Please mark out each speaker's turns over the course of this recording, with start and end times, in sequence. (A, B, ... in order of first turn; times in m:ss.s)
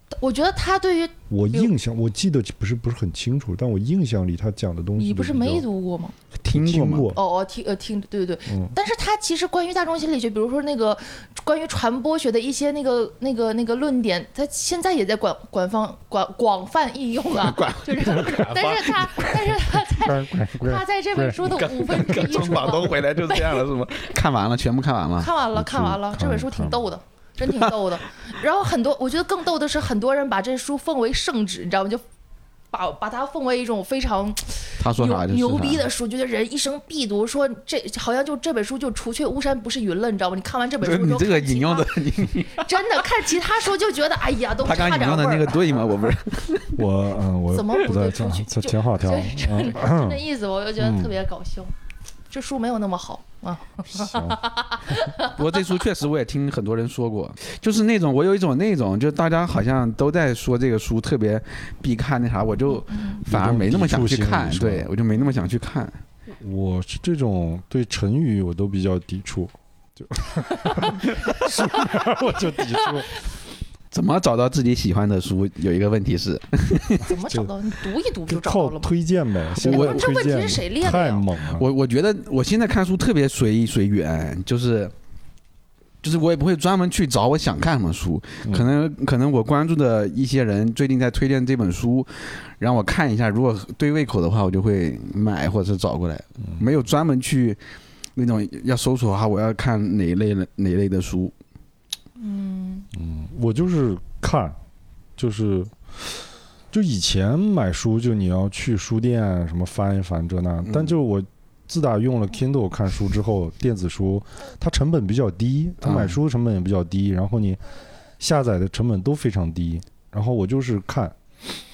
0:00.2-0:01.7 A
0:01.3-0:05.6 B
0:05.0-0:06.1 A
0:06.4-0:07.1 C
0:06.5-0:07.2 B
0:07.1-0:24.0 A
0:08.5-0:08.7 B
0:17.3-0:19.3 C
0:19.8-0:21.4 B
0:21.4-0:25.3 C
0:25.2-0:32.0 A
0:25.5-0:26.8 B
0:27.5-0:27.7 C
0:32.7-0:45.6 A
0:34.8-0:35.9 C
0:40.8-0:42.7 C
0:44.6-0:46.8 C
0:46.8-0:50.2 B
0:47.5-0:51.7 A
0:50.8-0:51.1 B
0:52.3-0:55.5 A
0:53.9-0:54.4 B
0:55.2-1:06.0 C
1:02.7-1:03.2 A
1:03.3-1:04.9 B
1:06.3-1:13.1 B
1:10.7-1:11.0 A
1:13.9-1:17.0 C
1:17.0-1:18.9 A
1:17.1-1:17.5 B
1:18.3-1:21.7 B
1:19.6-1:21.2 A
1:19.6-1:20.0 C
1:21.5-1:24.9 C
1:26.0-1:37.6 C
1:28.4-1:28.7 B
1:38.2-1:41.3 C
1:42.2-1:42.9 A
1:42.9-1:44.6 B
1:45.2-1:46.2 B
1:46.7-1:57.6 B
1:55.8-1:56.2 C
1:58.2-2:01.2 B